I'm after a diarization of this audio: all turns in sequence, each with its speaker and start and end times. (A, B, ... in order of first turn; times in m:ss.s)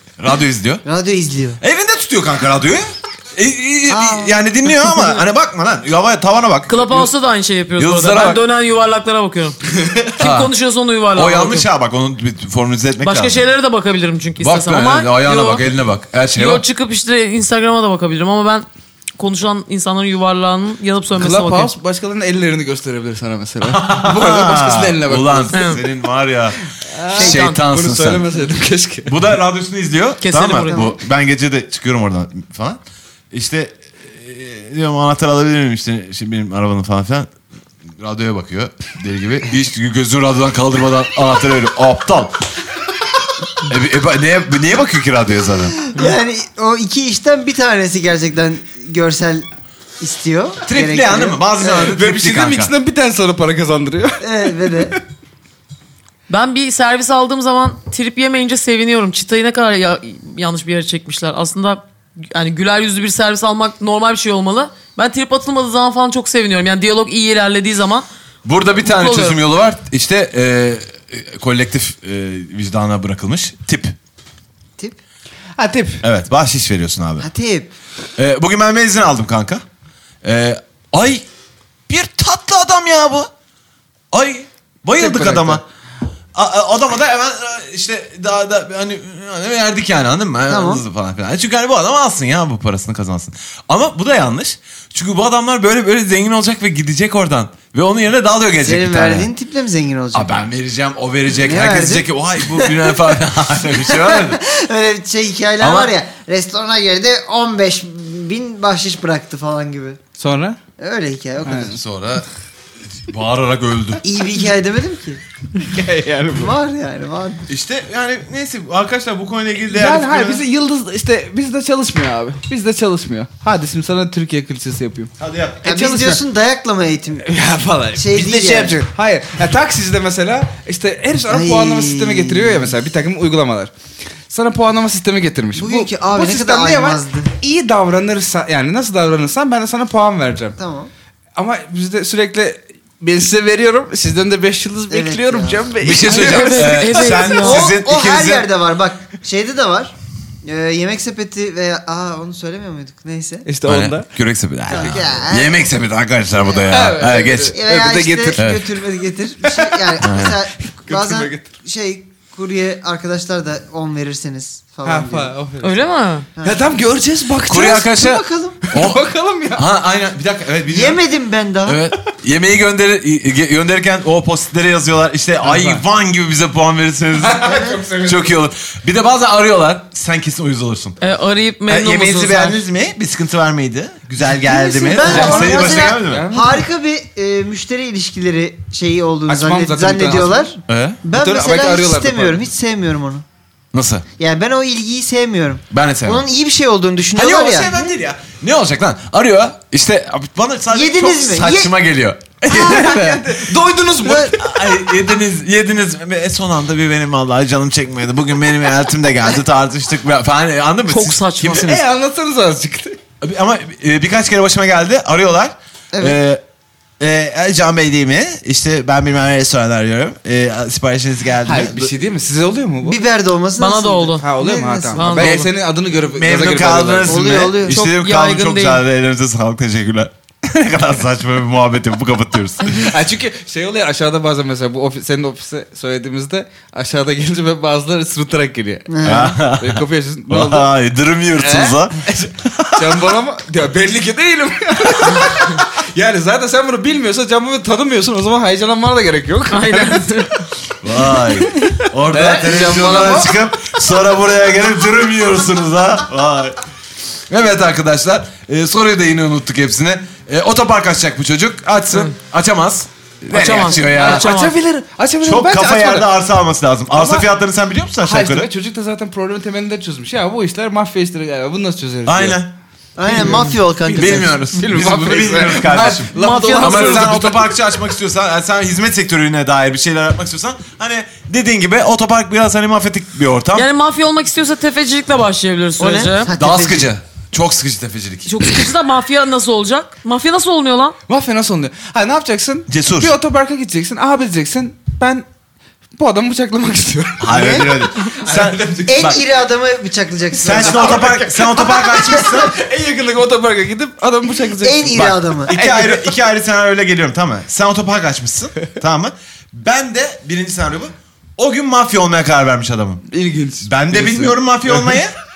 0:00.2-0:00.8 A
0:00.8-0:01.6 B
0:01.6-0:07.1 A
0:03.9-0:04.4 B
0:06.7-0:09.6 C
0:07.8-0:08.4 A
0:10.2-0:11.7 C
0:10.2-0:10.5 A
0:11.1-0:13.4 A
0:13.0-0:15.6 C
0:14.4-0:16.6 A
0:16.4-0:18.7 C
0:19.2-0:21.7 C
0:21.2-0:25.7 D
0:23.6-0:26.6 A
0:25.5-0:25.8 C
0:26.8-0:29.2 D
0:27.1-0:28.2 A
0:27.2-0:27.6 C
0:29.1-0:32.8 A
0:30.2-0:30.9 C
0:30.7-0:30.9 B
0:33.3-0:37.3 A
0:38.0-0:42.3 A
0:43.6-0:45.8 A
0:45.8-0:49.4 B
0:50.0-0:51.9 B
0:50.6-0:52.7 A
0:51.6-0:55.0 D
0:54.2-0:55.0 B
0:56.3-1:08.0 C
1:08.4-1:13.9 A
1:08.8-1:09.4 C
1:15.6-1:16.0 D
1:16.0-1:17.3 A
1:17.2-1:17.7 B
1:18.2-1:19.6 A
1:20.2-1:21.2 A
1:21.9-1:23.3 A
1:24.1-1:25.6 A
1:25.0-1:25.6 D
1:26.3-1:39.3 A
1:30.5-1:30.8 B
1:38.6-1:40.4 B
1:40.1-1:44.4 A
1:41.4-1:43.0 B
1:43.8-1:50.0 B
1:45.6-1:45.9 A
1:50.2-1:50.6 D
1:50.8-1:51.8 B
1:51.4-1:51.8 D
1:51.7-1:52.3 A
1:53.0-1:54.0 A
1:54.0-1:55.2 B
1:55.6-1:56.6 D
1:56.3-1:57.4 B
1:57.5-2:00.4 A
1:59.7-2:05.1 D
2:05.2-2:05.6 A
2:05.6-2:07.2 B
2:05.6-2:06.2 D
2:07.2-2:13.7 D
2:08.0-2:08.8 B
2:11.3-2:12.7 B
2:14.3-2:20.6 D
2:15.6-2:17.3 B
2:20.6-2:20.9 B
2:21.4-2:27.1 D
2:24.9-2:25.7 B
2:25.8-2:28.5 A
2:26.0-2:27.7 C
2:27.1-2:33.5 B
2:33.4-2:34.1 D
2:33.6-2:37.6 A
2:34.7-2:35.7 B
2:34.7-2:35.0 D
2:36.7-2:38.5 D
2:37.5-2:45.3 B
2:38.3-2:38.6 A
2:39.4-2:39.9 D
2:40.0-2:40.4 A
2:40.7-2:41.5 D
2:44.8-2:45.8 D
2:45.6-2:46.3 C
2:46.4-2:47.9 D
2:47.4-2:49.0 A
2:47.5-2:48.6 B
2:48.7-2:49.7 D
2:49.5-2:51.0 A
2:50.7-2:51.8 B
2:51.6-2:57.5 A
2:55.4-2:55.8 D
2:57.1-2:58.3 D
2:57.4-2:57.8 B
2:58.0-3:01.0 A
3:01.0-3:02.6 C
3:01.7-3:06.3 A
3:04.4-3:13.2 B
3:04.8-3:06.6 D
3:09.3-3:10.5 D
3:10.7-3:11.0 A
3:11.1-3:12.4 D
3:13.7-3:14.0 A
3:14.2-3:17.8 B
3:15.7-3:16.2 A
3:17.1-3:23.4 A
3:20.7-3:21.7 B
3:22.5-3:24.4 D
3:22.6-3:22.9 B
3:24.0-3:24.4 B
3:24.1-3:31.8 A
3:30.9-3:31.8 C
3:31.4-3:33.0 D
3:33.2-3:36.4 A
3:35.9-3:36.2 B
3:37.0-3:41.9 A
3:41.4-3:43.0 D
3:42.8-3:45.2 B
3:43.6-3:44.2 C
3:44.2-3:47.4 D
3:44.9-3:45.5 C
3:46.1-3:52.9 A
3:47.0-3:47.8 B
3:47.7-3:48.8 C
3:52.6-4:00.7 D
3:58.9-3:59.4 B
3:59.0-4:03.0 A
4:01.4-4:10.2 D
4:09.5-4:10.4 C
4:10.8-4:16.6 A
4:11.1-4:13.4 D
4:17.3-4:24.3 A
4:23.3-4:24.5 C
4:23.7-4:26.1 D
4:25.2-4:28.5 A
4:26.9-4:27.2 D
4:28.0-4:32.4 D
4:32.0-4:32.5 A
4:33.0-4:34.4 B
4:33.1-4:37.6 D
4:33.9-4:43.7 A
4:35.9-4:37.2 C
4:43.5-4:46.3 C
4:45.8-4:46.9 B
4:46.4-4:48.6 A
4:48.2-4:51.0 C
4:51.1-4:55.2 D
4:52.7-4:53.2 A
4:56.0-4:59.2 D
4:57.2-4:59.2 A
4:57.3-4:57.7 B
4:58.8-5:01.0 B
5:00.4-5:02.6 A
5:00.5-5:06.2 D
5:04.6-5:05.5 B
5:04.9-5:13.0 A
5:13.1-5:15.0 D
5:13.6-5:15.1 A